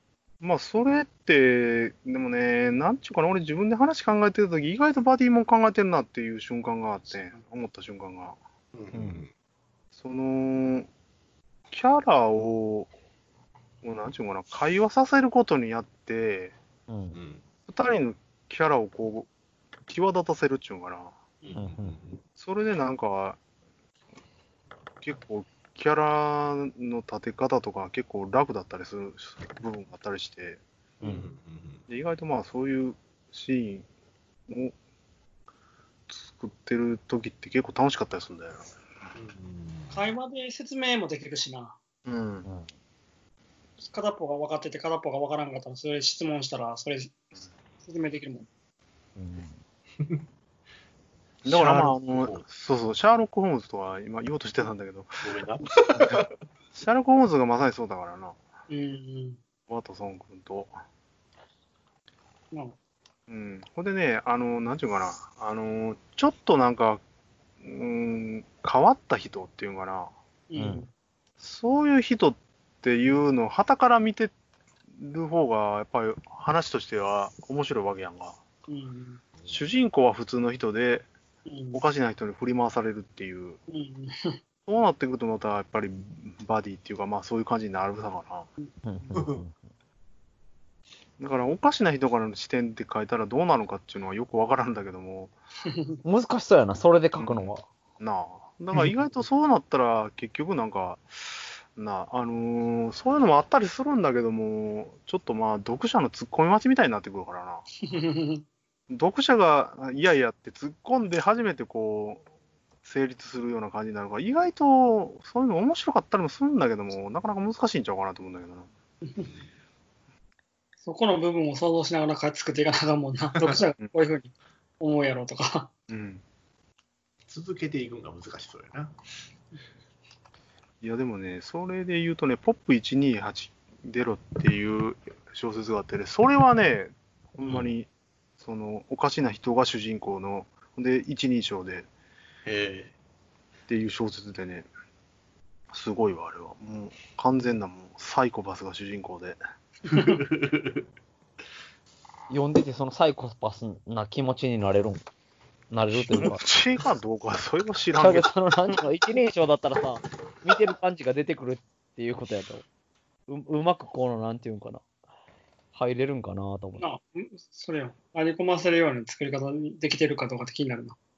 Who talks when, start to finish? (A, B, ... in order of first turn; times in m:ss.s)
0:00.4-0:08.4 A
0:08.7-0:09.3 B
0:08.9-0:09.2 C
0:09.9-0:10.9 A
0:11.7-0:12.9 A
0:13.8-0:16.5 A
0:16.9-0:17.2 C
0:17.1-0:17.4 B
0:17.7-0:19.3 A
0:19.9-0:21.2 A
0:21.4-0:22.2 B
0:21.5-0:22.0 C
0:22.4-0:23.4 A
0:25.0-0:30.6 A
0:31.0-0:31.3 C
0:31.0-0:31.8 B
0:31.9-0:33.8 A
0:34.5-0:34.7 A
0:36.1-0:39.0 A
0:39.1-0:40.0 B
0:39.9-0:41.8 D
0:42.0-0:42.4 A
0:42.4-0:42.7 C
0:43.8-0:47.2 D
0:47.8-0:48.5 D
0:49.2-0:49.6 C
0:51.4-0:55.2 A
0:51.4-0:52.4 B
0:55.2-0:56.3 B
0:56.8-0:58.4 A
0:58.7-0:59.4 D
0:59.7-1:00.7 A
1:03.3-1:07.0 A
1:07.6-1:10.1 A
1:10.5-1:10.9 D
1:10.6-1:10.8 C
1:11.4-1:14.3 A
1:14.9-1:18.4 A
1:18.7-1:19.2 D
1:19.5-1:21.1 A
1:21.5-1:21.8 D
1:21.7-1:23.6 A
1:23.7-1:24.4 D
1:24.7-1:28.5 A
1:28.8-1:29.6 C
1:29.1-1:29.4 B
1:31.2-1:35.3 A
1:35.7-1:36.0 D
1:36.0-1:37.6 C
1:37.2-1:47.7 A
1:47.8-1:48.4 D
1:48.9-1:52.2 A
1:52.8-1:58.7 A
2:00.8-2:05.7 D
2:05.9-2:06.2 A
2:07.3-2:09.0 B
2:10.8-2:21.9 A
2:17.4-2:17.7 B
2:22.4-2:22.9 B
2:23.7-2:24.7 A
2:25.7-2:29.4 A
2:29.8-2:30.9 B
2:32.3-2:35.0 C
2:35.7-2:36.4 C
2:36.1-2:38.3 A
2:37.9-2:42.6 C
2:43.3-2:44.8 C
2:45.7-2:46.8 C
2:46.8-2:51.0 D